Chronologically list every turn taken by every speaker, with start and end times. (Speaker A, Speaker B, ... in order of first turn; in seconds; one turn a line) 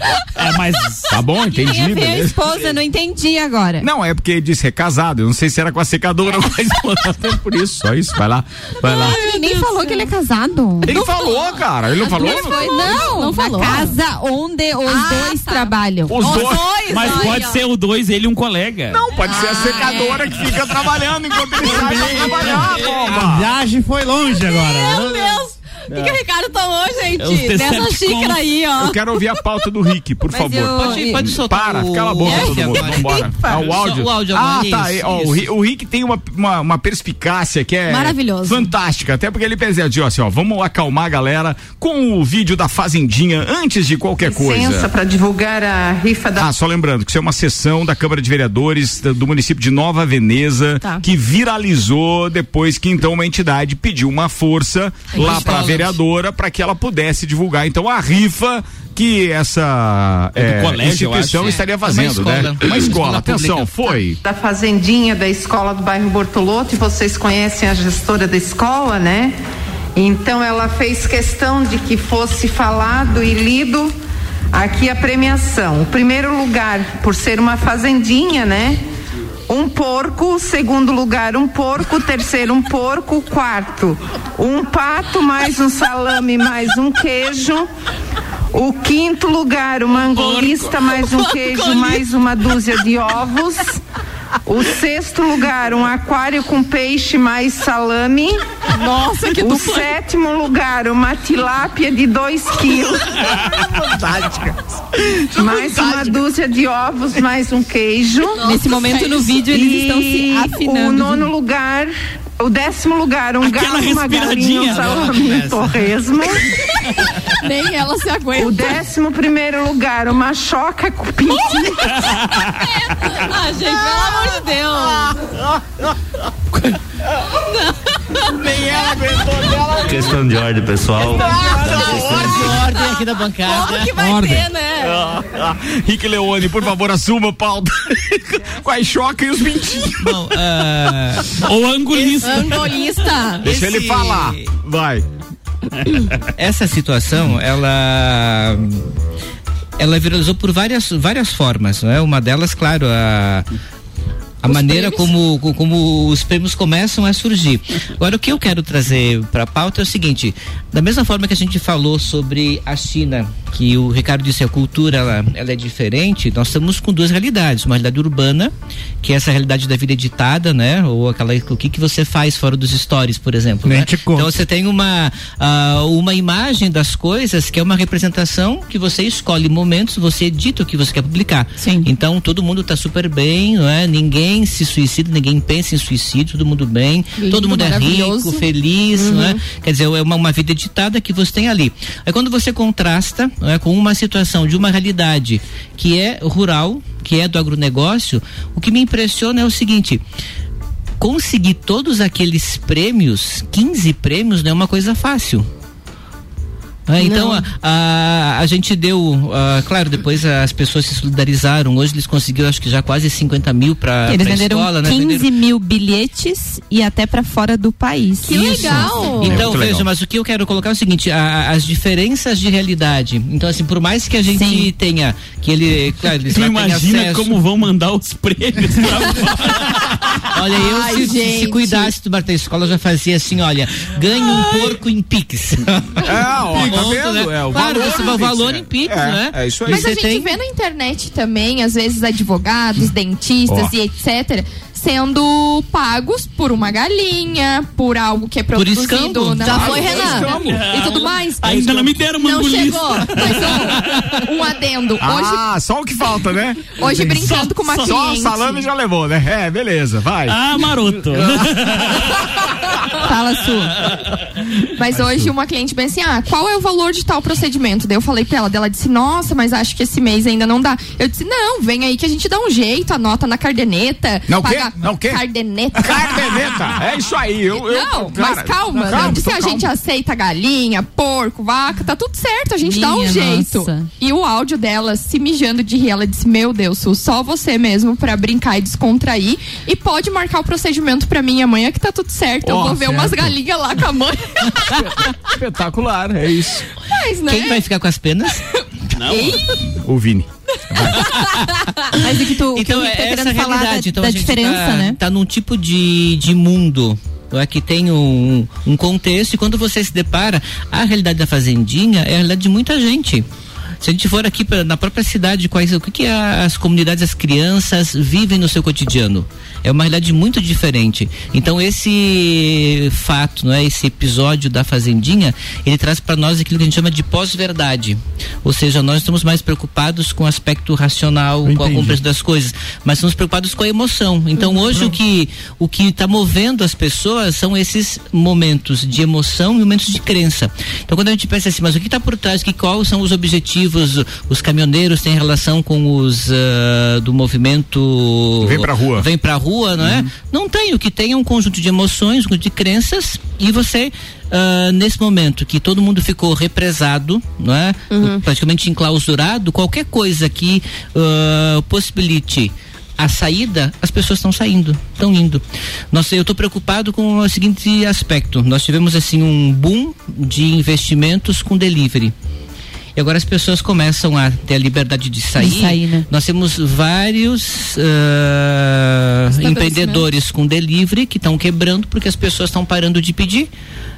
Speaker A: 0.3-1.1
Speaker B: 1.1-2.4
Speaker C: 1.4-3.9
Speaker B: 3.8-9.2
Speaker C: 8.8-11.0
Speaker D: 8.9-10.1
Speaker B: 10.8-13.0
Speaker D: 10.9-13.9
Speaker C: 12.0-16.5
Speaker D: 14.8-17.6
Speaker B: 16.1-16.7
Speaker A: 16.9-19.0
Speaker B: 18.9-23.5
Speaker D: 19.1-20.6
Speaker D: 21.4-22.7
Speaker A: 21.6-23.0
Speaker E: 23.1-25.5
Speaker D: 24.3-29.4
Speaker A: 27.2-28.5
Speaker B: 28.8-44.9
Speaker C: 30.3-31.3
Speaker F: 30.7-35.5
Speaker D: 32.2-33.5
Speaker D: 37.9-38.7
Speaker G: 44.2-46.5
Speaker B: 46.4-64.2
Speaker F: 55.1-56.0
Speaker A: 60.4-61.6
Speaker F: 61.5-64.0
Speaker G: 64.2-69.3
Speaker G: 69.9-73.9
Speaker G: 74.5-78.8
Speaker G: 79.5-87.7
Speaker G: 88.5-93.8
Speaker A: 90.1-91.0
Speaker G: 94.4-98.6
Speaker H: 98.7-99.9
Speaker G: 99.3-103.4
Speaker B: 103.8-104.4
Speaker G: 105.3-108.5
Speaker B: 105.3-106.1
Speaker C: 108.4-111.3
Speaker G: 109.3-116.5
Speaker A: 113.4-115.0
Speaker F: 114.7-115.7
Speaker H: 116.8-118.8
Speaker G: 118.3-122.0
Speaker A: 122.0-122.5
Speaker D: 122.6-125.1
Speaker D: 127.4-127.7
Speaker B: 128.3-129.8
Speaker I: 129.8-132.6
Speaker D: 131.2-135.1
Speaker F: 131.3-133.9
Speaker B: 131.4-132.4
Speaker E: 133.9-134.5
Speaker B: 134.8-140.3
Speaker F: 140.0-141.4
Speaker A: 141.4-142.8
Speaker F: 142.0-142.6
Speaker D: 142.2-143.5
Speaker B: 143.4-145.0
Speaker F: 143.4-144.5
Speaker F: 146.3-148.8
Speaker F: 149.8-153.5
Speaker F: 154.4-200.0
Speaker D: 154.5-155.1
Speaker E: 173.6-174.4
Speaker C: 181.6-181.9
Speaker H: 187.2-188.5
Speaker D: 189.0-189.4
Speaker F: 201.0-205.5
Speaker F: 206.9-215.3
Speaker D: 207.0-207.4
Speaker C: 214.1-219.0
Speaker D: 218.2-219.5
Speaker F: 218.3-227.3
Speaker B: 219.2-219.9
Speaker C: 224.3-224.7
Speaker A: 226.3-230.0
Speaker F: 230.3-240.3
Speaker H: 230.5-231.9
Speaker B: 236.0-240.0
Speaker E: 236.5-236.8
Speaker H: 239.7-252.0
Speaker B: 243.5-243.7
Speaker F: 248.5-250.3
Speaker B: 249.4-250.6
Speaker D: 249.5-250.4
Speaker A: 250.2-254.0
Speaker D: 252.2-253.2
Speaker H: 253.1-255.4
Speaker B: 255.0-260.4
Speaker H: 256.7-258.7
Speaker A: 257.0-257.9
Speaker A: 260.3-262.2
Speaker B: 261.1-261.5
Speaker C: 263.0-263.8
Speaker H: 264.8-276.4
Speaker E: 265.0-265.3
Speaker B: 274.3-275.2
Speaker B: 275.8-279.7
Speaker H: 277.5-294.9
Speaker C: 282.6-283.9
Speaker B: 292.4-293.3
Speaker B: 294.7-296.7
Speaker H: 296.9-297.7
Speaker F: 297.2-298.4
Speaker A: 298.9-299.4
Speaker H: 299.1-299.6
Speaker B: 299.8-301.1
Speaker C: 301.9-305.0
Speaker F: 302.0-313.2
Speaker F: 313.8-372.1
Speaker E: 331.4-332.0
Speaker B: 348.4-349.1
Speaker B: 349.8-350.1
Speaker D: 357.9-358.2
Speaker F: 372.9-383.5
Speaker C: 375.4-376.1
Speaker H: 379.3-380.1